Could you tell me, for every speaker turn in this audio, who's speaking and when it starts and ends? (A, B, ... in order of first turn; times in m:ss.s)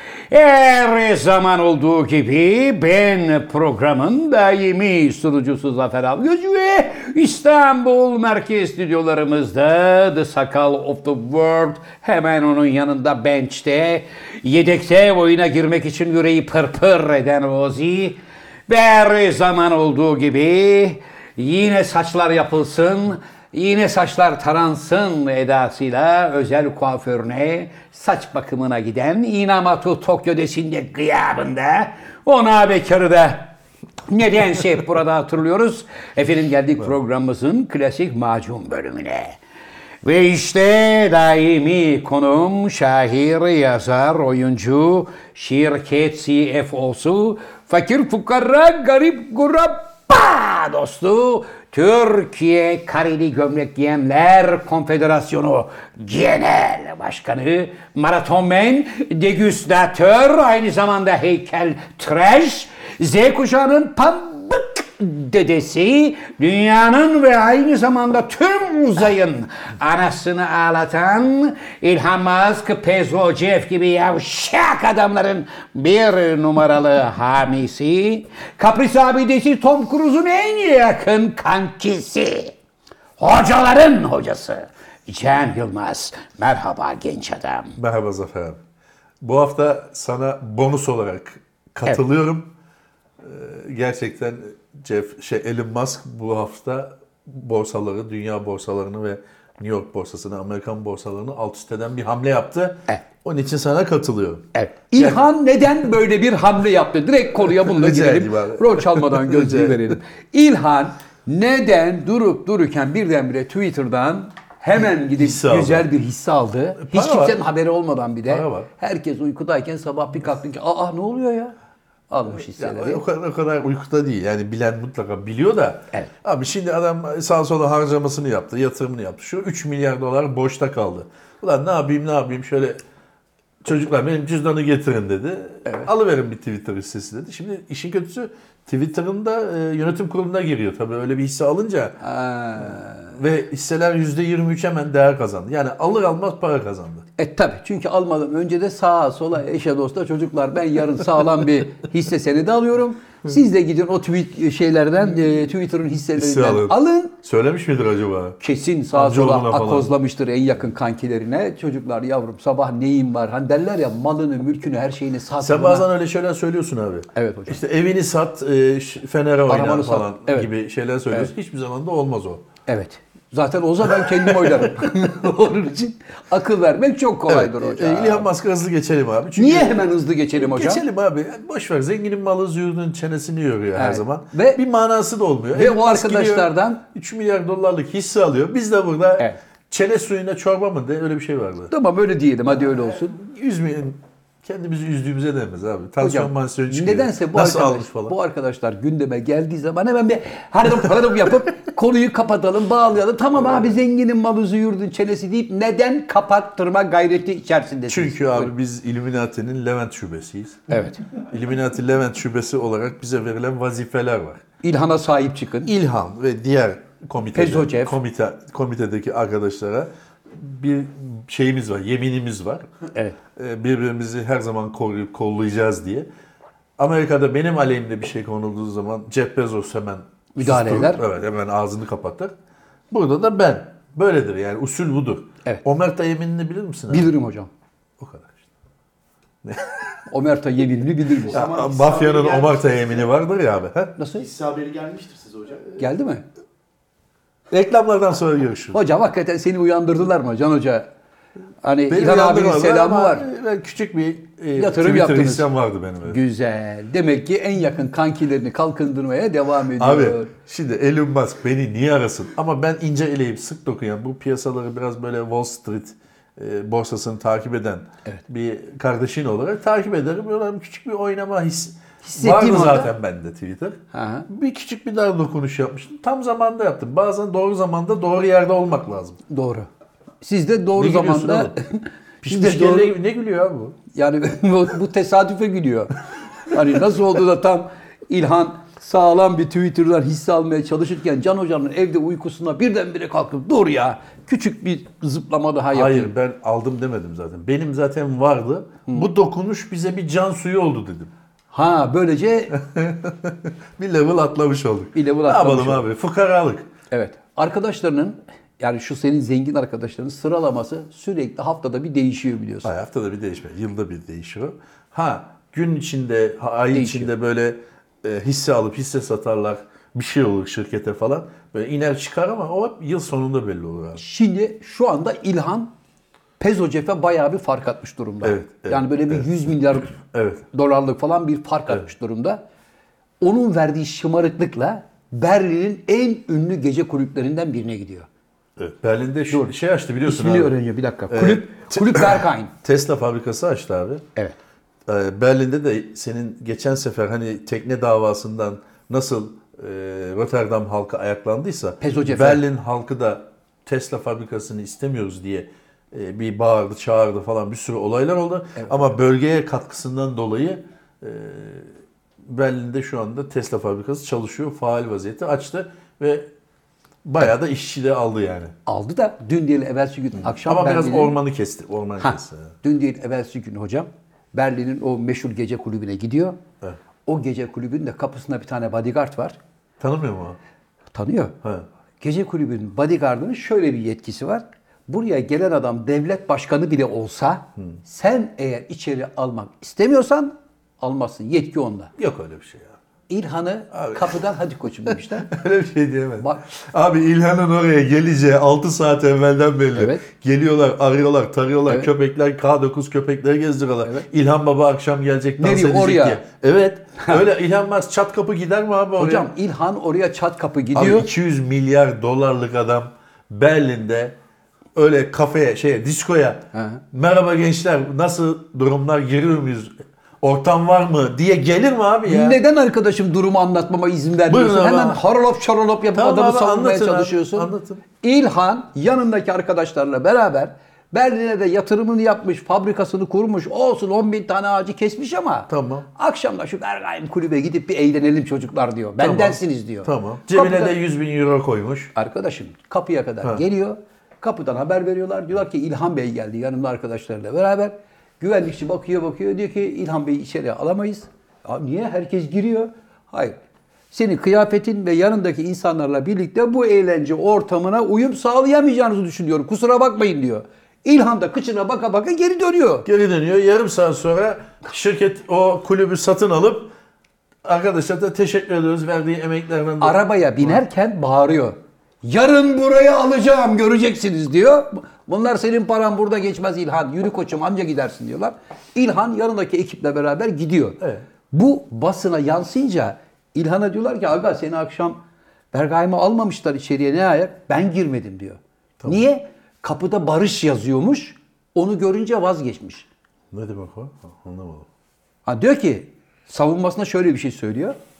0:00.3-0:33.5 A
0:34.1-0:39.4 A
0:40.0-1:22.5 A
1:23.2-1:27.8 A
1:27.8-1:28.6 B
1:29.2-1:32.5 B
1:33.2-1:45.2 B
1:44.5-2:01.5 A
1:47.4-1:49.8 B
1:55.1-1:55.9 B
1:56.8-1:57.4 B
1:58.3-1:58.7 B
2:02.1-2:03.0 A
2:02.3-2:12.8 B
2:13.6-2:22.0 B
2:15.6-2:15.9 A
2:22.0-2:23.1 A
2:23.1-2:27.0 B
2:27.2-2:37.1 A
2:36.2-2:38.4 B
2:38.4-2:45.9 A
2:38.9-2:39.9 B
2:45.4-2:52.4 B
2:47.1-2:47.6 A
2:49.5-2:50.5 A
2:52.7-2:58.3 A
2:53.9-2:54.7 B
2:57.3-3:11.7 B
2:59.4-3:00.8 A
3:03.7-3:04.6 A
3:05.5-3:06.8 A
3:11.7-3:13.2 A
3:13.2-3:18.1 B
3:16.0-3:28.5 A
3:27.9-3:34.4 B
3:30.7-3:31.0 A
3:34.6-3:35.7 A
3:35.6-3:42.7 B
3:37.3-3:37.9 A
3:43.4-3:46.1 B
3:46.8-3:52.3 B
3:50.4-3:51.0 A
3:52.9-3:57.1 B
3:56.9-3:57.5 A
3:58.0-3:58.4 B
3:59.4-4:00.0 B
4:00.1-4:01.8 A
4:01.3-4:03.0 C
4:01.3-4:03.9 B
4:04.0-4:04.2 A
4:04.1-4:05.7 C
4:05.8-4:06.2 A
4:07.5-4:08.8 B
4:08.7-4:10.9 A
4:11.6-4:13.2 A
4:11.9-4:16.2 B
4:14.5-4:15.5 A
4:16.0-4:20.3 A
4:19.8-4:39.2 B
4:32.0-4:32.9 A
4:33.9-4:34.3 A
4:39.3-4:39.7 A
4:40.2-4:42.9 A
4:40.7-4:41.5 B
4:42.2-4:43.8 B
4:43.9-4:56.1 A
4:55.7-5:01.1 B
5:01.5-5:02.6 A
5:02.5-5:06.6 B
5:04.9-5:05.8 A
5:06.9-5:12.7 A
5:12.6-5:24.0 B
5:16.7-5:17.1 A
5:24.0-5:25.7 A
5:26.4-5:30.0 A
5:28.2-5:29.3 B
5:29.9-5:30.4 B
5:30.5-5:32.4 A
5:33.2-5:38.1 A
5:38.6-5:40.5 B
5:40.0-5:42.5 A
5:41.1-5:44.0 B
5:44.9-6:01.7 B
5:51.8-5:52.4 A
6:02.2-6:06.3 B
6:07.0-6:08.5 B
6:08.6-6:11.1 A
6:10.2-6:12.5 B
6:12.0-6:16.4 A
6:17.0-6:19.4 A
6:19.8-6:20.4 B
6:20.9-6:21.3 A
6:22.0-6:31.9 A
6:32.0-6:32.8 B
6:33.1-6:35.3 A
6:33.7-6:34.2 B
6:34.9-6:49.3 B
6:36.2-6:36.5 A
6:39.8-6:40.0 A
6:45.4-6:46.2 A
6:49.0-6:51.1 A
6:50.7-6:54.2 B
6:54.7-7:02.4 B
6:56.5-6:56.8 A
7:02.0-7:07.5 A
7:04.3-7:05.0 B
7:05.9-7:07.8 B
7:08.0-7:20.8 A
7:15.5-7:15.8 B
7:19.0-7:21.9 B
7:21.9-7:33.4 A
7:33.9-7:42.9 A
7:42.8-7:46.7 B
7:47.4-7:50.6 B
7:49.8-8:05.0 A
8:05.5-8:12.9 A
8:13.3-8:14.7 B
8:15.2-8:17.8 A